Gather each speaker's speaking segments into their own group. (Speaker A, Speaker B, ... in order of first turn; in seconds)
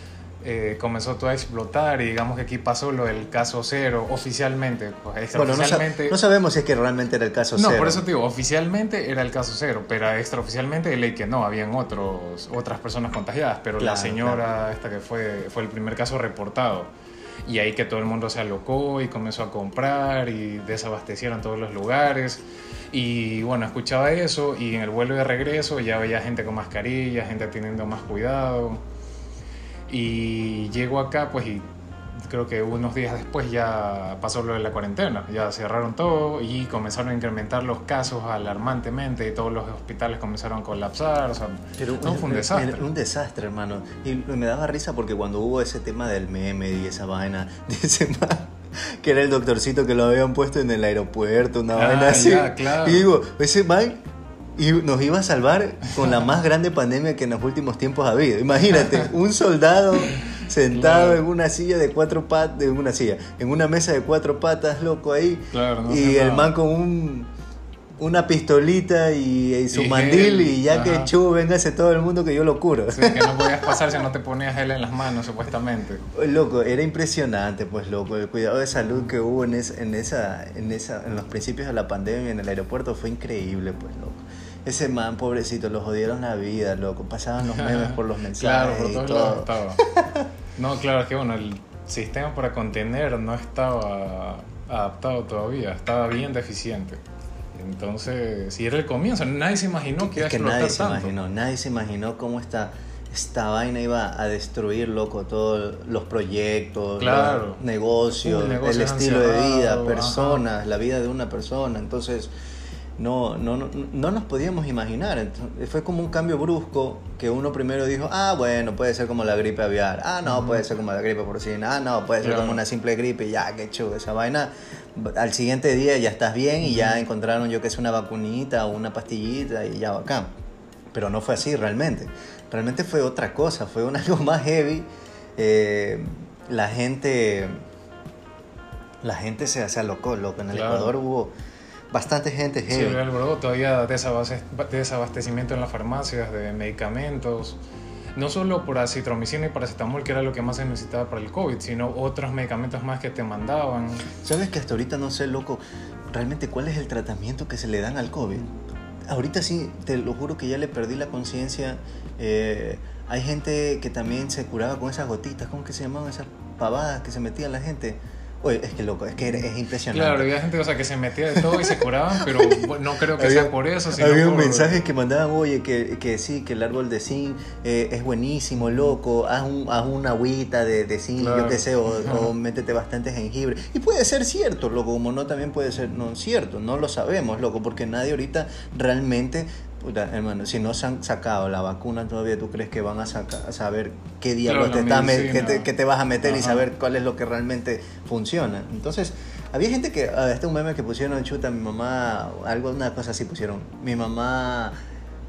Speaker A: 0.4-6.2, 7.5-16.9, 17.4-28.8, 29.9-31.7, 32.2-42.8, 51.7-53.1, 60.7-61.2, 65.5-66.5, 69.7-71.1, 72.9-76.0, 87.4-89.8, 90.6-97.0, 97.5-101.1, 107.0-110.4, 120.3-120.6, 122.2-122.6, 140.5-140.9, 142.7-147.6, 148.2-154.1, 169.9-174.9, 181.2-182.3, 194.4-195.7, 196.2-196.6
Speaker B: 5.3-8.0, 13.8-14.4, 41.8-54.0, 54.6-67.3, 68.0-73.8, 76.1-90.3, 100.0-112.3, 113.0-130.3, 130.9-137.6, 139.0-141.3, 141.9-143.0, 154.2-158.5, 159.1-170.3, 171.3-204.7